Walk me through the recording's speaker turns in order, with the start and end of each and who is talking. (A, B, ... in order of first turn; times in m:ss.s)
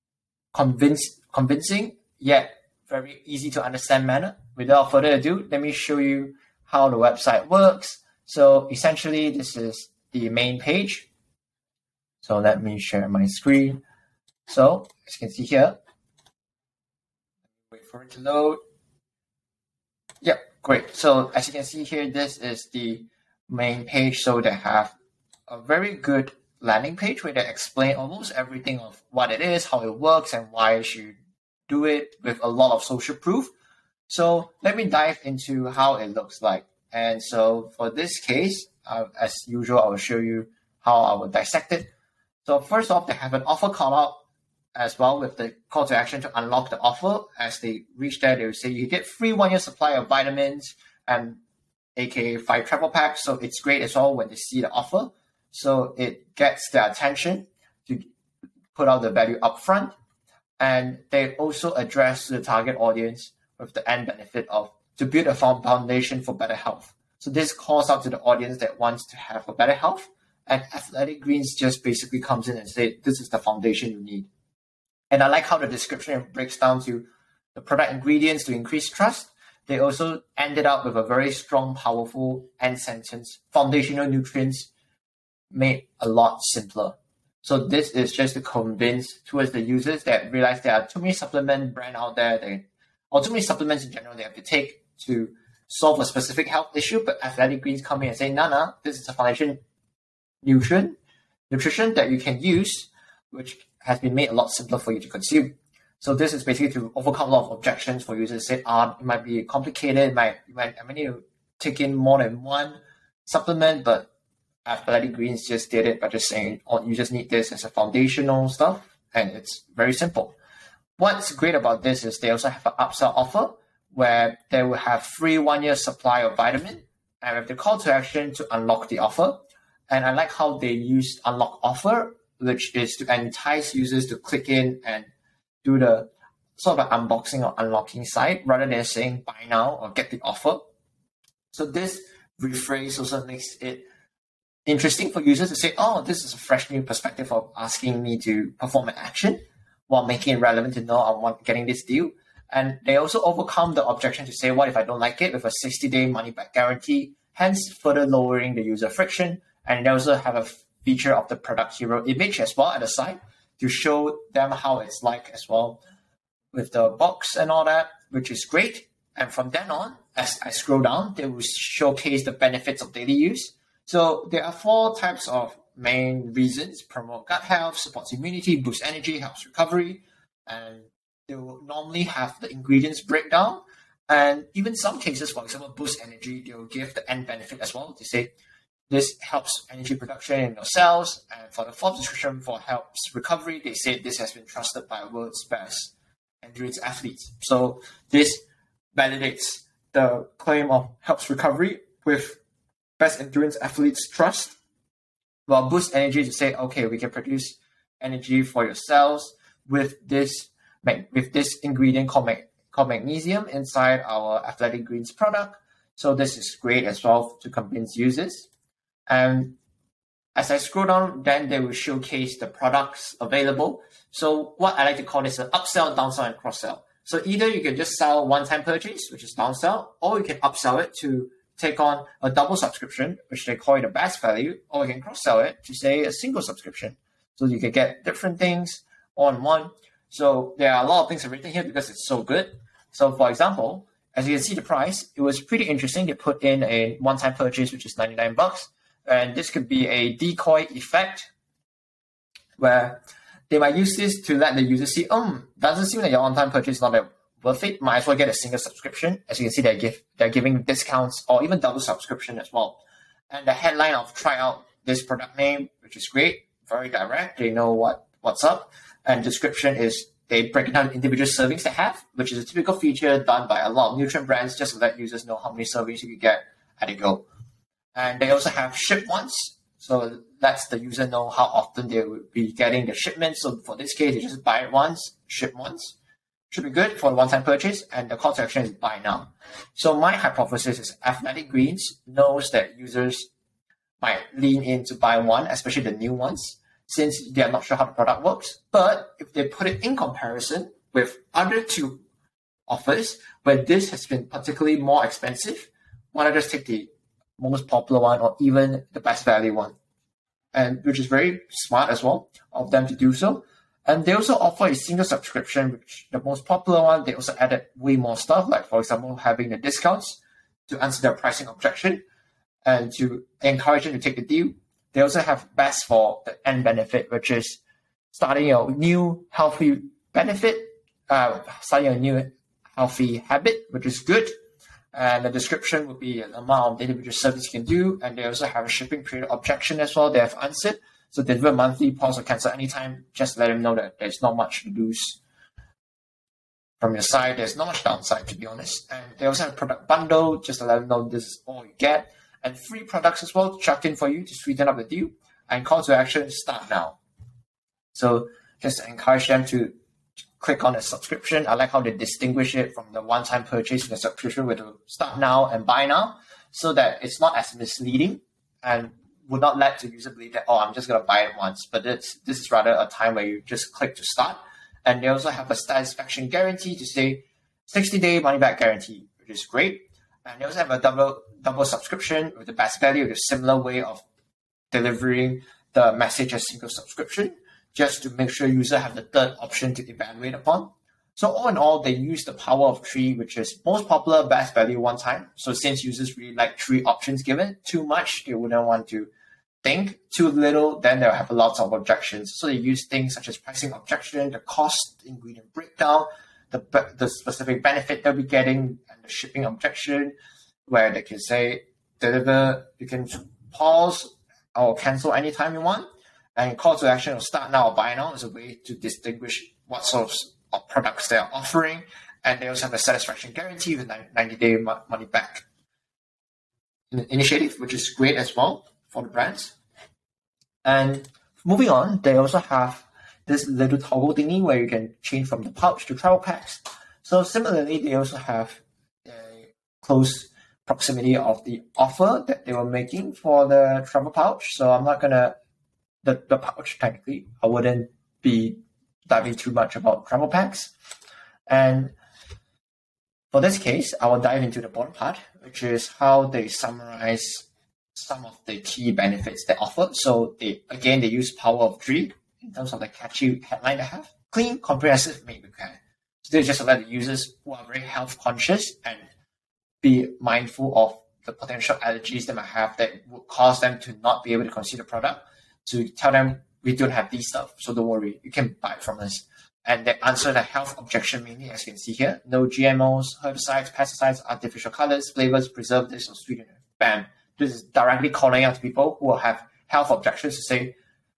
0:00.5-0:11.1 A
0:12.2-0:13.8 A
0:14.5-0:15.8 A
0:17.7-0:18.6 A
0:20.2-0:25.0 A
0:25.5-0:31.2 A
0:31.7-0:33.5 A
0:34.1-0:41.9 A
0:42.4-0:44.2 A
0:44.8-0:51.4 A
0:52.0-0:58.0 A
0:58.7-0:59.9 A
1:00.6-1:14.3 A
1:15.1-1:24.7 A
1:25.5-1:39.6 A
1:40.4-1:41.0 A
1:41.5-1:54.1 A
1:54.7-2:00.4 A
2:01.0-2:09.4 A
2:09.9-2:15.1 A
2:15.6-2:20.6 A
2:21.5-2:23.8 A
2:24.7-2:45.8 A
2:46.5-3:08.3 A
3:08.9-3:18.4 A
3:19.0-3:22.4 A
3:23.0-3:24.6 A
3:25.5-3:38.5 A
3:39.1-3:39.6 A
3:40.4-4:11.3 A
4:12.6-4:37.3 A
4:38.0-4:46.0 A
4:46.5-4:53.3 A
4:54.0-5:02.0 A
5:02.7-5:09.8 A
5:10.5-5:22.0 A
5:22.6-5:27.6 A
5:28.1-5:34.3 A
5:34.9-5:45.2 A
5:46.8-5:57.0 A
5:57.9-5:59.7 A
6:00.4-6:24.0 A
6:24.7-6:39.1 A
6:39.6-6:50.2 A
6:50.7-7:05.4 A
7:06.9-7:09.6 A
7:10.6-7:25.4 A
7:26.0-7:30.7 A
7:31.5-7:31.9 A
7:33.3-7:49.0 A
7:49.8-8:10.7 A